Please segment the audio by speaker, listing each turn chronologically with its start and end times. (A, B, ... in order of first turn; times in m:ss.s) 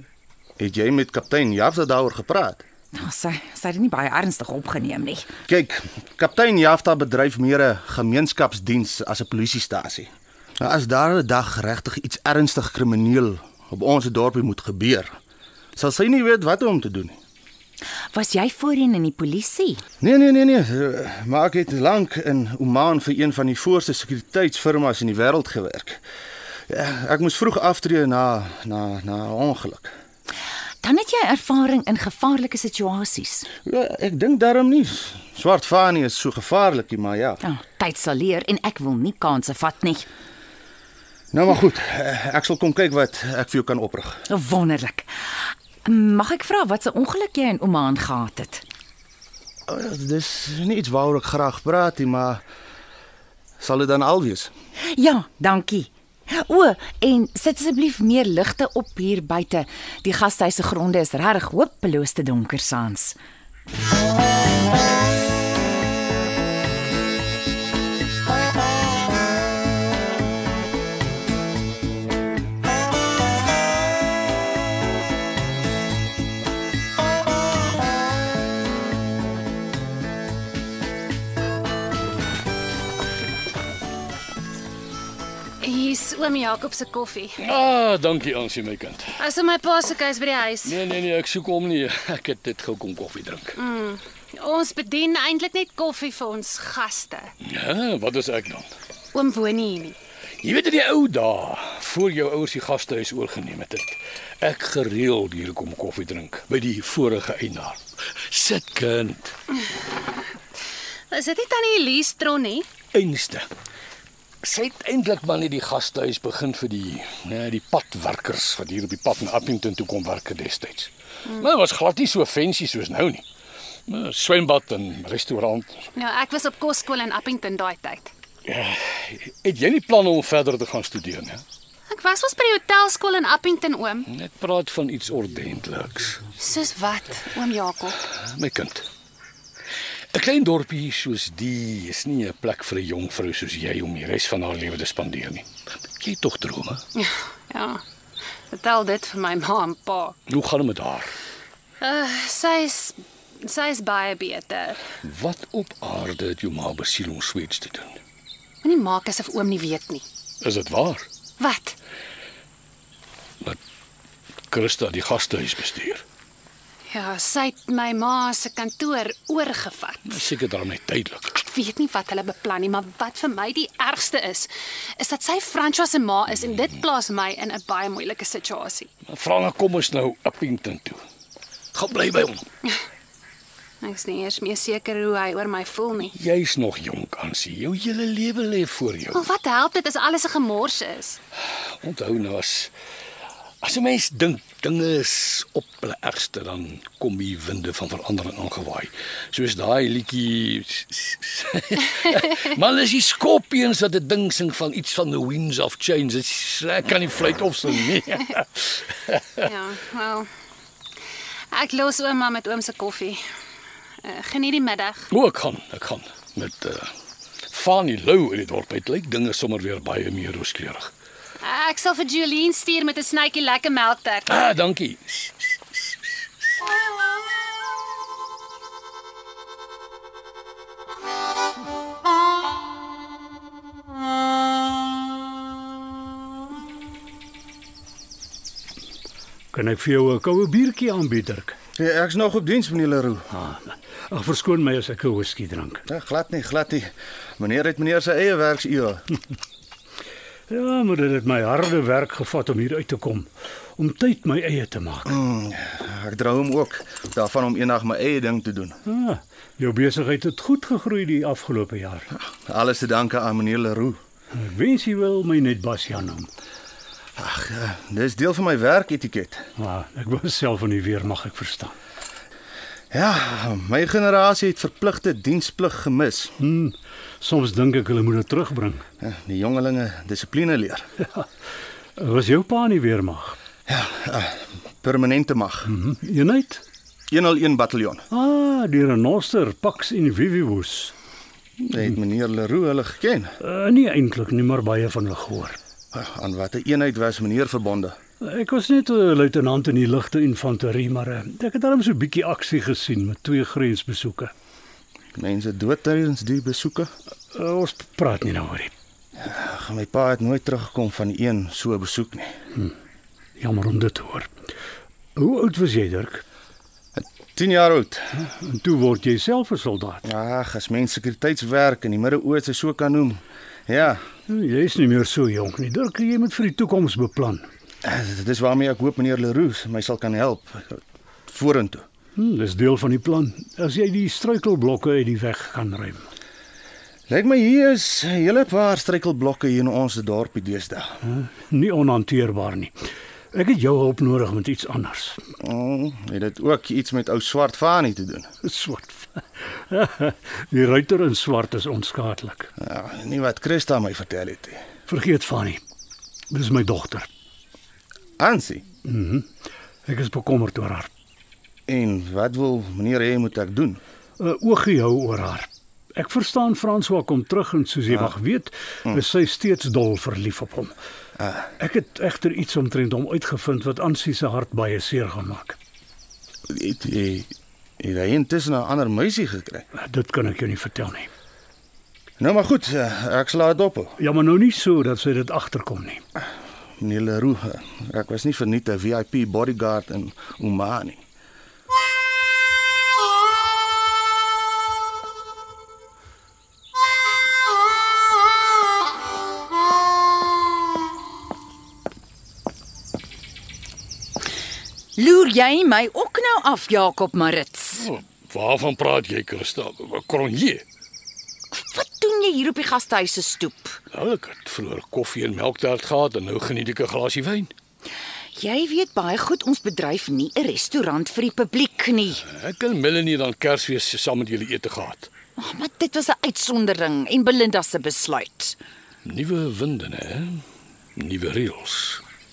0:00.6-0:02.6 A
0:02.9-0:05.3 B
0:05.5-0:15.2 A
0:15.8-0:17.2 A
0:18.1-0:19.8 B
0:20.0-0:26.0 A
0:26.7-0:29.9 A
0:30.8-0:33.5 B
0:33.6-0:37.4 A
0:37.4-0:40.0 B
0:41.3-0:44.2 A
0:44.3-0:48.6 B
0:49.7-0:52.4 A
0:53.6-0:54.5 A
0:54.8-1:03.2 B
1:25.6-1:27.4 C
1:27.4-1:29.1 D
1:29.2-1:30.8 C
1:30.6-1:33.6 D
1:33.6-1:37.3 C
1:37.4-1:38.7 D
1:39.1-1:40.0 C
1:40.4-1:49.3 D
1:51.1-1:52.7 C
1:52.9-1:53.5 D
1:54.4-2:03.2 D
2:03.9-2:05.9 D
2:06.0-2:08.1 C
2:08.4-2:11.4 D
2:11.9-2:14.1 C
2:14.1-2:16.2 D
2:16.4-2:18.0 C
2:18.1-2:18.8 D
2:20.1-2:25.4 D
2:26.0-2:26.8 D
2:26.9-2:27.8 C
2:28.5-2:30.1 C
2:30.3-2:31.1 D
2:31.8-2:34.8 C
2:35.0-2:38.0 D
2:38.6-2:40.0 C
2:40.4-2:41.1 D
2:41.4-2:41.8 C
2:44.5-2:46.0 D
2:46.9-2:50.2 C
2:50.1-2:51.4 D
2:51.4-2:58.9 C
2:59.1-3:01.0 D
3:01.7-3:02.4 D
3:03.8-3:06.1 C
3:06.1-3:09.2 D
3:09.1-3:11.2 C
3:11.8-3:12.7 D
3:13.6-3:29.4 D
3:29.4-3:30.2 C
3:31.5-3:33.2 C
3:34.0-3:35.1 C
3:35.1-3:36.9 D
3:37.5-3:40.9 D
3:41.4-3:44.4 C
3:44.3-3:45.8 D
3:59.5-4:01.6 E
4:01.8-4:03.3 A
4:03.3-4:05.8 E
4:05.9-4:09.0 A
4:10.5-4:15.2 E
4:15.1-4:18.8 A
4:18.8-4:22.1 E
4:22.2-4:24.0 A
4:24.3-4:26.3 E
4:27.2-4:29.4 A
4:29.6-4:31.7 E
4:32.9-4:36.3 A
4:36.4-4:38.8 E
4:39.0-4:40.9 A
4:42.0-4:43.4 E
4:43.7-4:45.7 A
4:45.7-4:46.6 E
4:47.1-4:48.0 A
4:48.1-4:50.9 E
4:51.6-4:53.3 A
4:53.4-4:55.6 E
4:55.9-4:58.0 A
4:58.2-5:04.3 E
5:05.2-5:06.9 A
5:07.3-5:08.7 E
5:09.2-5:12.3 A
5:13.4-5:14.3 E
5:15.2-5:16.2 E
5:17.0-5:18.1 A
5:18.2-5:20.0 E
5:20.0-5:24.0 A
5:24.3-5:27.4 E
5:27.8-5:31.8 A
5:32.2-5:36.1 E
5:37.1-5:41.0 A
5:41.0-5:42.7 E
5:43.3-5:45.2 E
5:45.4-5:48.3 A
5:48.4-5:52.5 E
5:52.6-5:54.6 A
5:54.9-5:55.6 E
5:56.3-5:57.1 E
5:58.2-5:58.6 A
5:58.8-5:59.3 E
5:59.8-6:00.9 E
6:01.7-6:03.8 A
6:04.2-6:10.7 E
6:11.6-6:15.6 E
6:16.5-6:19.6 A
6:19.7-6:21.1 E
6:22.2-6:24.0 A
6:24.0-6:26.0 E
6:26.8-6:31.0 A
6:45.0-6:47.9 B
6:47.8-6:50.6 D
6:51.5-6:53.8 B
6:53.9-6:57.5 D
6:58.3-7:02.2 B
7:02.2-7:05.1 D
7:05.4-7:08.6 B
7:09.0-7:10.4 D
7:11.0-7:12.0 D